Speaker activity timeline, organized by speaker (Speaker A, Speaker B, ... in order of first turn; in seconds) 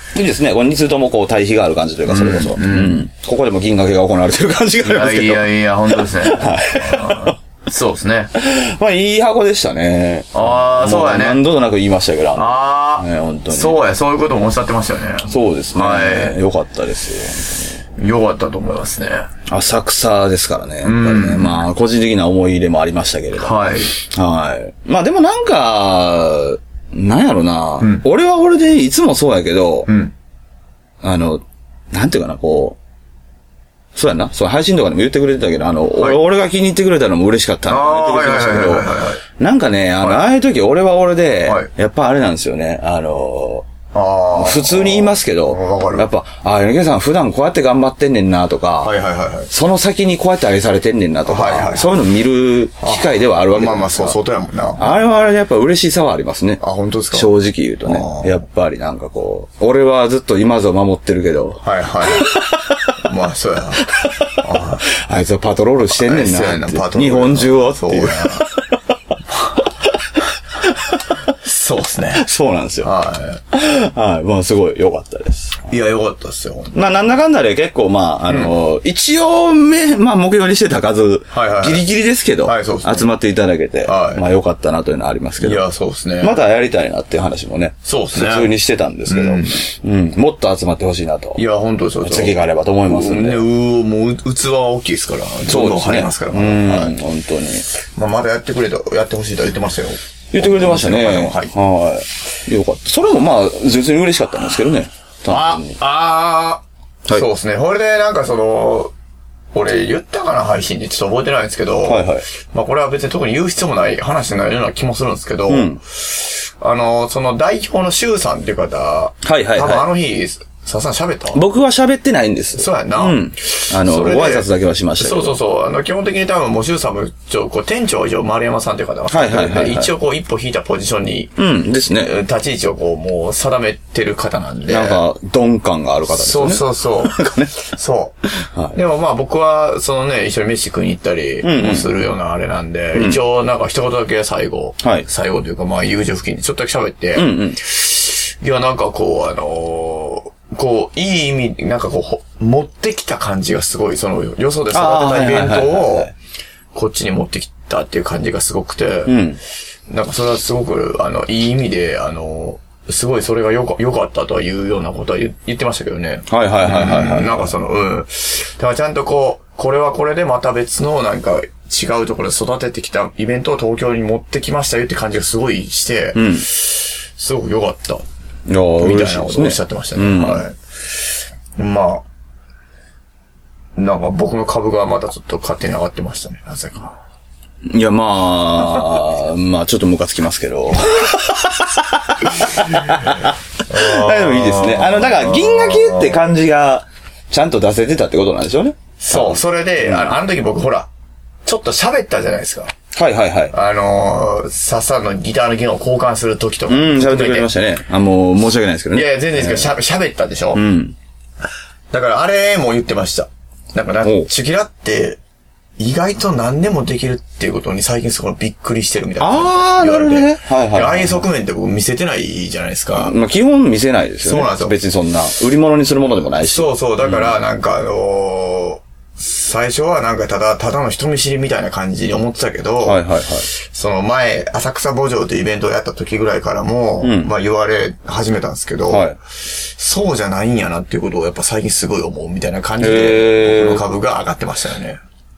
Speaker A: 0.1-7.3, 8.4-13.8, 15.3-17.8, 19.5-29.9, 31.0-32.8, 34.0-43.7, 44.3-49.0, 49.5-54.2, 54.8-63.0, 64.0-68.7, 70.6-71.2, 72.2-72.9, 73.5-75.7, 76.7-85.6, 86.2-91.4, 92.0-93.4, 95.5-97.7, 100.3-105.8, 111.9-112.3, 115.5-115.8, 119.2-119.9, 121.3-125.4, 129.1-129.9, 131.4-132.2, 134.7-137.7, 138.4-138.8, 141.4-141.9, 142.9-143.2, 144.8-145.1, 147.2-147.6, 154.7-156.1, 159.1-159.4, 166.3-167.5, 176.2-176.5, 178.5-180.5, 187.7-200.2, 202.9-203.6, 206.7-209.7, 210.5-210.9, 214.0-214.3, 219.2-221.2, 222.9-227.3, 232.8-233.5, 237.0-237.3, 238.9-239.2, 242.8-243.8
Speaker B: 2.1-3.1, 4.8-8.3, 10.3-11.4, 12.4-16.4, 18.0-19.3, 20.8-21.7, 23.4-23.9, 29.9-30.1, 37.7-39.2, 41.5-41.7, 43.9-46.1, 48.8-49.5, 51.3-51.9, 52.8-55.0, 56.6-57.3, 57.9-58.4, 61.6-62.3, 63.0-64.8, 65.9-68.5, 71.3-72.3, 72.8-73.4, 75.7-76.9, 81.3-81.8, 82.4-83.1, 83.8-84.2, 85.4-86.4, 87.8-88.5, 89.1-89.6, 91.4-97.0, 97.8-101.5, 105.3-108.9, 109.5-121.4, 122.6-124.5, 125.0-131.3, 131.9-135.0, 136.1-138.2, 138.7-156.1, 156.7-159.2, 159.9-178.1, 178.8-181.1, 181.6-182.1, 183.8-187.0, 192.7-196.2, 199.0-200.9, 201.4-202.7, 203.5-207.5, 208.9-210.6, 211.9-215.2, 215.8-223.2, 224.2-224.8, 226.4-245.0